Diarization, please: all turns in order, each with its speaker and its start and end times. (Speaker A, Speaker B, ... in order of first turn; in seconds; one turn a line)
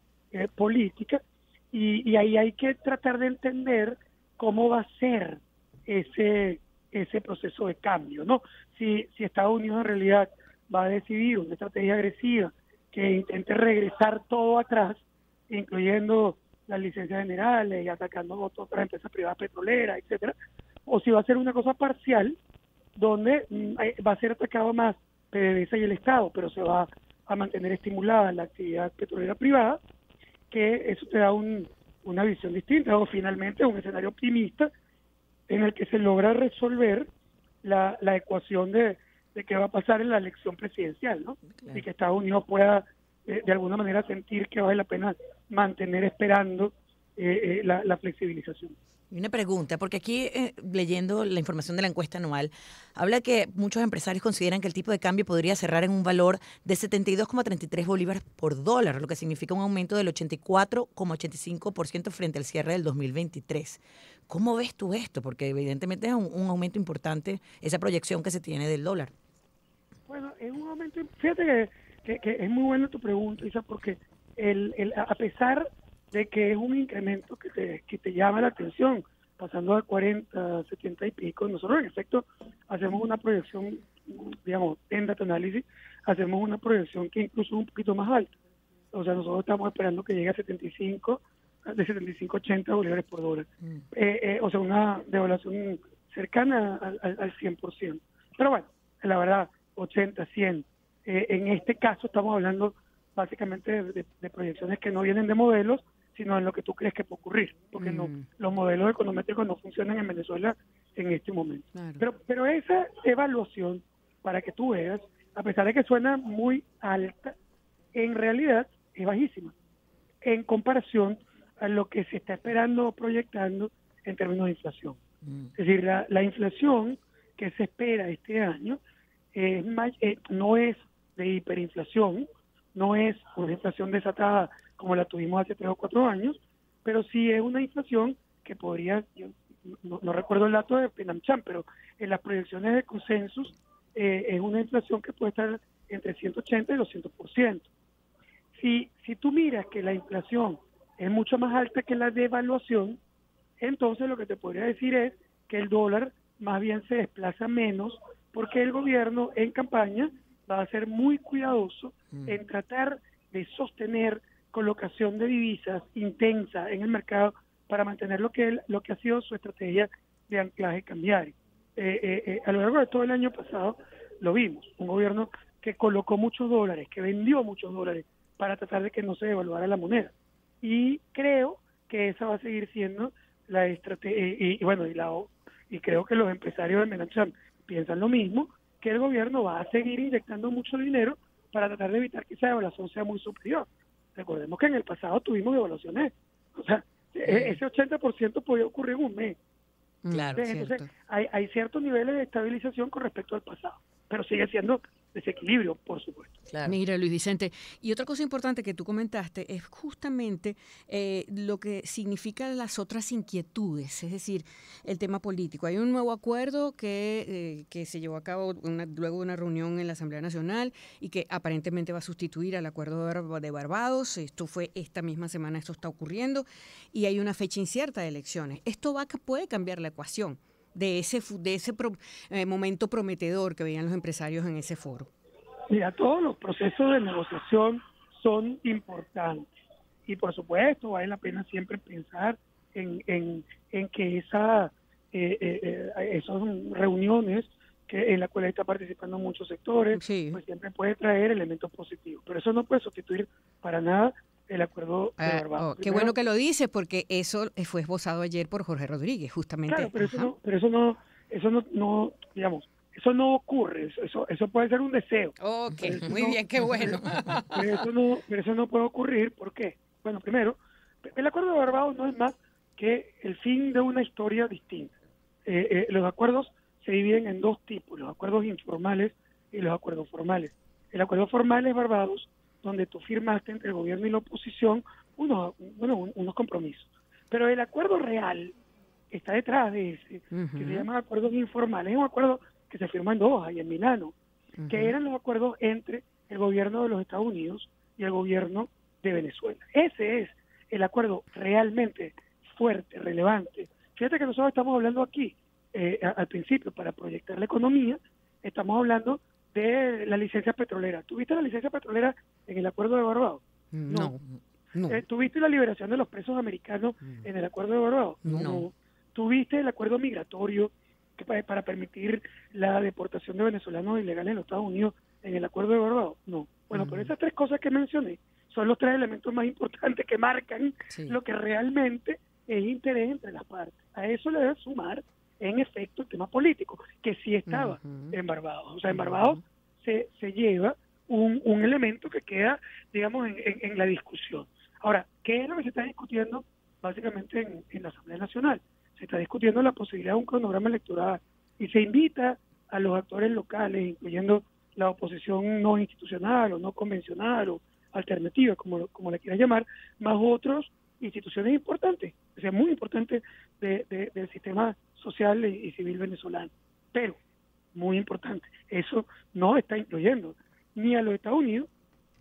Speaker A: 0.3-20.3
Speaker A: 20.9-22.4
Speaker A: 22.9-29.8
Speaker A: 30.5-34.7
Speaker A: 35.5-37.1
Speaker A: 37.6-48.7
Speaker B: 49.1-69.1
Speaker A: 70.1-88.3
Speaker A: 88.9-117.3
Speaker C: 107.8-108.2
Speaker C: 111.8-112.0
Speaker A: 117.9-119.5
Speaker A: 120.2-125.0
Speaker A: 125.5-128.8
Speaker A: 129.3-147.7
Speaker A: 148.5-153.0
Speaker A: 153.6-199.4
Speaker C: 200.0-200.9
Speaker B: 200.1-200.4
Speaker A: 200.4-206.3
Speaker B: 206.5-206.8
Speaker C: 206.6-235.1
Speaker A: 235.7-239.5
Speaker A: 240.1-256.1
Speaker C: 249.9-250.4
Speaker C: 255.2-260.3
Speaker A: 259.7-267.0
Speaker C: 265.4-267.6
Speaker A: 267.5-274.9
Speaker A: 275.4-288.5
Speaker A: 289.1-294.1
Speaker C: 290.3-290.9
Speaker C: 294.6-294.9
Speaker A: 294.7-314.2
Speaker C: 313.7-314.2
Speaker C: 314.7-315.0
Speaker A: 314.9-367.2
Speaker C: 318.2-318.6
Speaker B: 318.3-318.6
Speaker C: 326.7-327.1
Speaker C: 330.9-331.2
Speaker C: 337.4-338.1
Speaker C: 338.9-339.4
Speaker A: 367.7-371.7